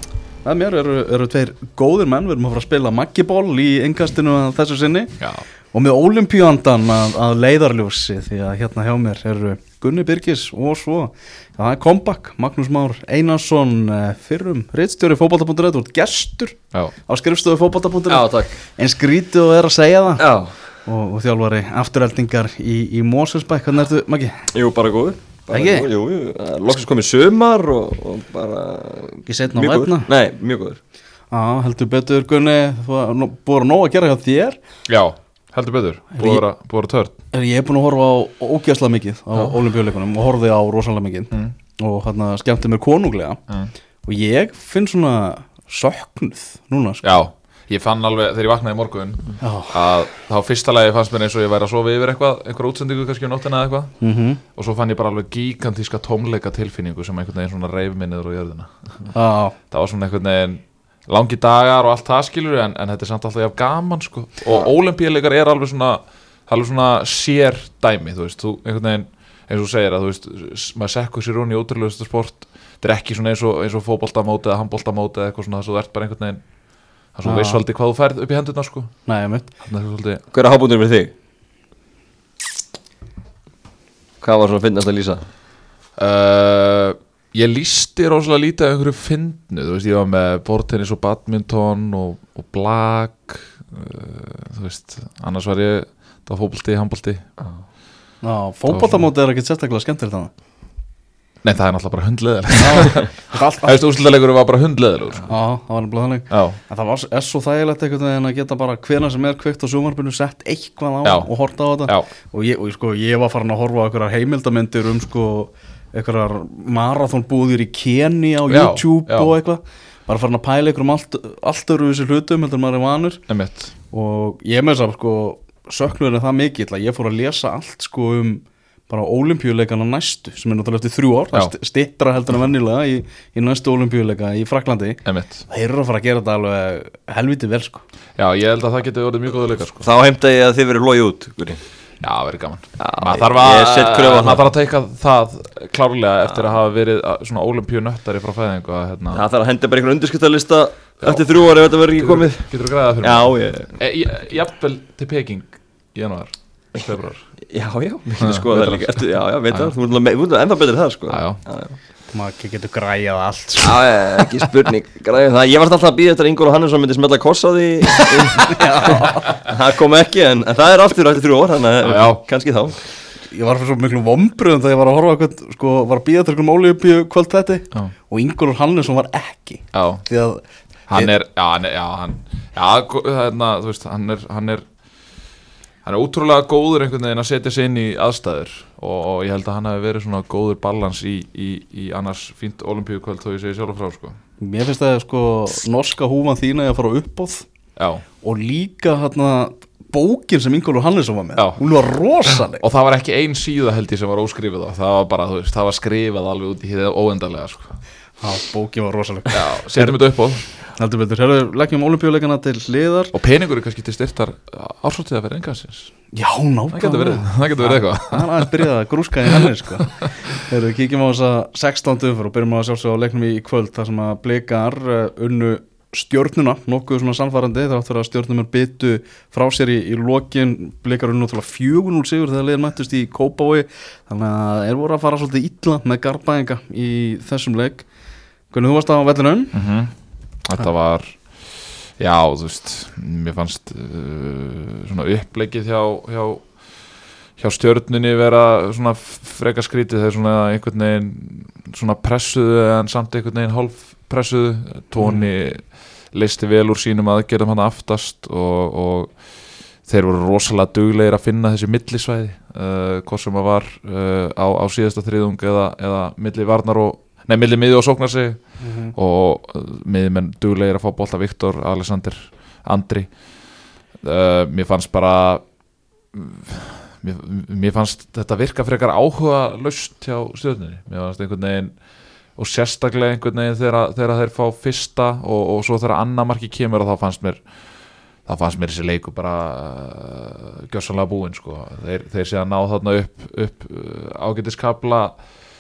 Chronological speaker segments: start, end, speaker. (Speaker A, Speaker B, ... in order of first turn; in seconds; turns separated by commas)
Speaker A: 0.4-5.2, Speaker B: 5.2-5.5, Speaker A: 5.7-20.3, Speaker C: 18.1-18.6, Speaker C: 20.2-20.6, Speaker A: 20.8-24.5, Speaker C: 24.5-30.8, Speaker A: 25.5-25.9, Speaker A: 29.3-30.1, Speaker A: 31.3-34.6, Speaker B: 34.9-37.1, Speaker A: 36.2-36.4, Speaker A: 37.3-43.4, Speaker B: 43.5-43.7, Speaker A: 44.1-47.1, Speaker B: 47.0-54.0, Speaker A: 49.4-49.8, Speaker A: 54.0-54.4, Speaker B: 54.5-59.1, Speaker A: 59.1-59.5, Speaker B: 59.7-80.2, Speaker A: 77.2-77.6, Speaker A: 79.1-79.5, Speaker C: 80.3-81.1, Speaker C: 84.2-85.2, Speaker B: 86.0-97.2, Speaker A: 98.2-100.3, Speaker B: 98.7-99.1, Speaker B: 101.4-103.1, Speaker A: 102.6-103.8, Speaker B: 103.6-105.3, Speaker A: 105.3-123.2, Speaker B: 106.3-106.6, Speaker B: 111.0-111.3, Speaker B: 118.5-119.3, Speaker B: 123.3-123.7, Speaker A: 123.9-137.8, Speaker B: 135.1-135.4, Speaker B: 138.2-139.9, Speaker C: 139.8-141.6, Speaker B: 142.0-149.2, Speaker C: 142.8-144.4, Speaker C: 149.1-153.8, Speaker B: 151.0-157.3, Speaker C: 157.5-161.8, Speaker B: 158.2-158.9, Speaker B: 161.1-161.4, Speaker A: 162.1-163.8, Speaker C: 163.6-172.8, Speaker B: 168.2-168.6, Speaker A: 168.5-169.3, Speaker B: 171.8-172.2, Speaker A: 173.3-181.1, Speaker B: 179.7-180.1, Speaker B: 180.9-184.8, Speaker B: 185.8-194.2, Speaker A: 194.4-197.5, Speaker B: 197.8-198.1, Speaker A: 198.2-202.6, Speaker B: 201.4-201.7, Speaker B: 202.3-207.8, Speaker A: 208.2-210.0, Speaker B: 209.3-210.5, Speaker A: 210.5-213.1, Speaker B: 213.1-216.0, Speaker A: 216.1-237.9, Speaker B: 216.7-218.7, Speaker A: 238.5-239.6, Speaker B: 239.5-275.5, Speaker A: 255.0-255.3, Speaker A: 268.6-268.9, Speaker B: 276.1-281.8, Speaker B: 282.4-295.2